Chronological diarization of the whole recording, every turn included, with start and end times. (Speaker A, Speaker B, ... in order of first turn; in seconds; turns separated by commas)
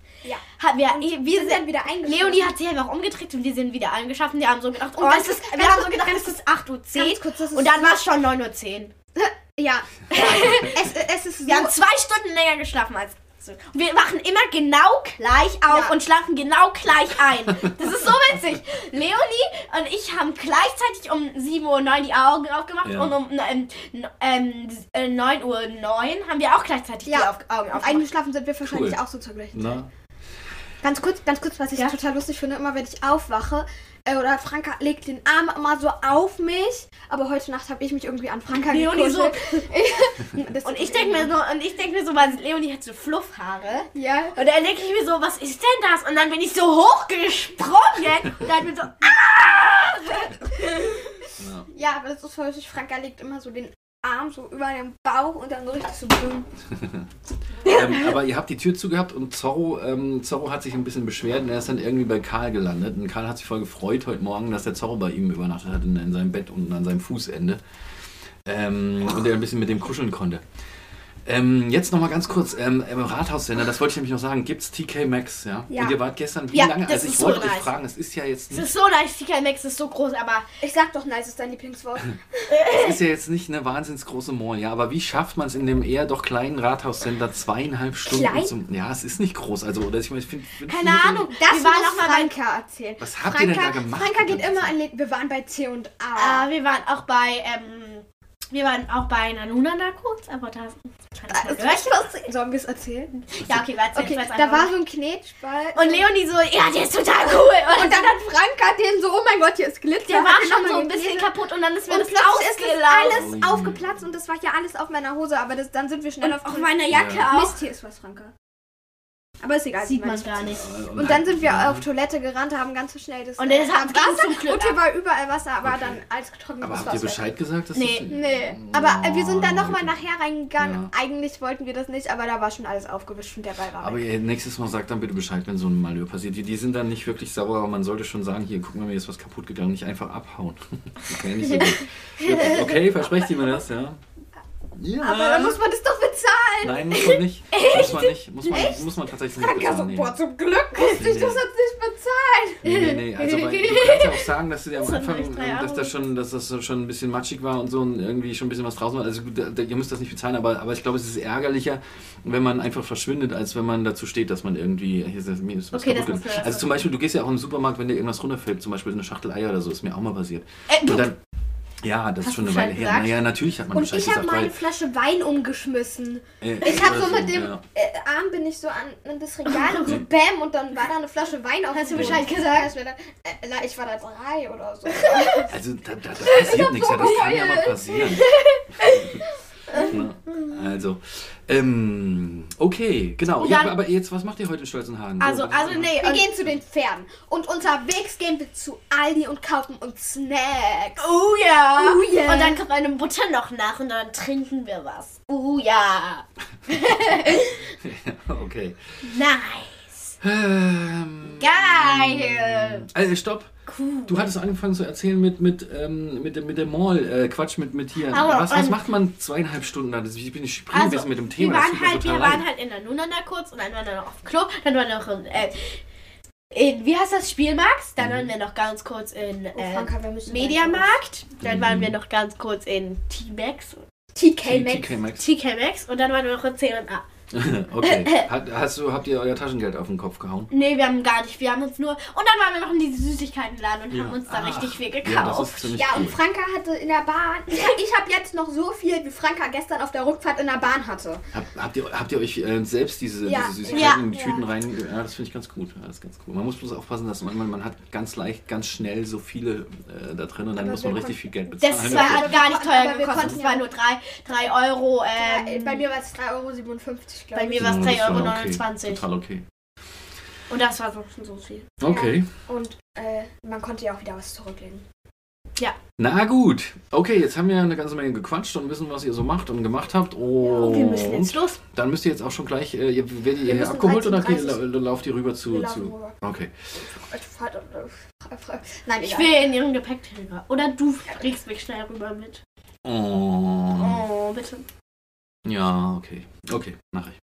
Speaker A: 0.2-2.5, Speaker B: 0.6-8.9, Speaker A: 4.9-6.3, Speaker A: 6.9-7.9, Speaker A: 9.2-11.7, Speaker B: 10.1-10.8, Speaker B: 11.4-28.0, Speaker A: 15.7-15.9, Speaker C: 22.8-23.1, Speaker A: 27.1-29.8, Speaker C: 28.6-29.0, Speaker C: 29.5-29.9, Speaker A: 30.8-41.3, Speaker B: 38.6-39.6, Speaker B: 40.6-51.0, Speaker A: 43.9-44.4, Speaker C: 51.4-51.7, Speaker A: 51.7-56.5, Speaker C: 57.6-67.6, Speaker C: 68.4-70.4, Speaker C: 71.2-78.7, Speaker A: 75.7-76.0, Speaker B: 76.5-77.7, Speaker B: 78.5-80.5, Speaker A: 80.6-82.5, Speaker B: 82.5-83.0, Speaker C: 82.7-91.3, Speaker A: 88.0-88.5, Speaker A: 90.7-96.5, Speaker B: 91.3-92.3, Speaker C: 93.0-94.8, Speaker B: 96.1-101.9, Speaker A: 101.3-103.1, Speaker B: 103.2-104.7, Speaker A: 103.9-106.1, Speaker B: 105.7-108.2, Speaker A: 107.7-111.3, Speaker B: 110.0-113.3, Speaker A: 111.9-118.3, Speaker C: 113.1-114.0, Speaker B: 116.2-117.6, Speaker C: 116.9-117.3, Speaker A: 119.4-127.3, Speaker B: 119.8-120.7, Speaker C: 120.5-121.8, Speaker B: 123.4-124.8, Speaker C: 125.6-126.0, Speaker C: 126.6-130.0, Speaker B: 127.7-128.1, Speaker A: 128.1-134.0, Speaker C: 130.6-130.9, Speaker C: 133.8-144.0, Speaker B: 141.4-142.4, Speaker A: 142.2-142.8, Speaker C: 144.7-145.6, Speaker A: 145.0-152.7, Speaker C: 146.6-150.2, Speaker C: 150.7-151.4, Speaker B: 152.6-155.9, Speaker C: 152.6-171.2, Speaker B: 165.7-166.8, Speaker B: 170.7-171.1, Speaker C: 171.8-174.6, Speaker B: 172.2-173.1, Speaker A: 173.7-185.5, Speaker C: 176.4-177.6, Speaker B: 179.5-180.0, Speaker B: 181.7-182.7, Speaker C: 181.9-182.2, Speaker B: 184.9-185.5, Speaker C: 185.5-189.2, Speaker A: 186.2-187.9, Speaker B: 187.9-190.5, Speaker A: 189.7-190.0, Speaker C: 189.7-196.2, Speaker B: 193.4-193.8, Speaker B: 195.2-196.3, Speaker A: 195.9-201.1, Speaker B: 201.0-207.7, Speaker A: 201.7-202.6, Speaker C: 206.7-209.0, Speaker B: 209.0-210.2, Speaker C: 210.2-213.5, Speaker B: 211.4-212.9, Speaker B: 213.7-214.3, Speaker C: 214.1-222.4, Speaker B: 218.1-218.8, Speaker B: 220.7-225.8, Speaker B: 226.5-233.8, Speaker C: 228.0-228.3, Speaker A: 229.5-230.9, Speaker C: 231.4-231.9, Speaker A: 234.1-234.9, Speaker C: 234.4-235.3, Speaker B: 235.2-237.0, Speaker C: 237.3-240.5, Speaker B: 237.8-238.2, Speaker B: 240.5-245.7, Speaker C: 243.9-246.2, Speaker A: 245.7-251.2, Speaker C: 251.3-262.6, Speaker A: 253.2-254.4, Speaker B: 253.7-254.1, Speaker A: 260.6-263.7, Speaker B: 261.6-265.9, Speaker C: 263.1-263.4, Speaker A: 265.1-267.7, Speaker B: 267.3-269.0, Speaker C: 267.5-269.4, Speaker B: 270.5-271.7, Speaker C: 271.8-272.3, Speaker A: 271.8-274.8, Speaker C: 276.0-286.5, Speaker B: 280.4-281.6, Speaker A: 283.4-284.6, Speaker A: 285.5-286.2, Speaker A: 286.8-289.5, Speaker B: 289.0-292.4, Speaker C: 292.8-294.1, Speaker B: 293.7-294.6, Speaker C: 295.4-297.2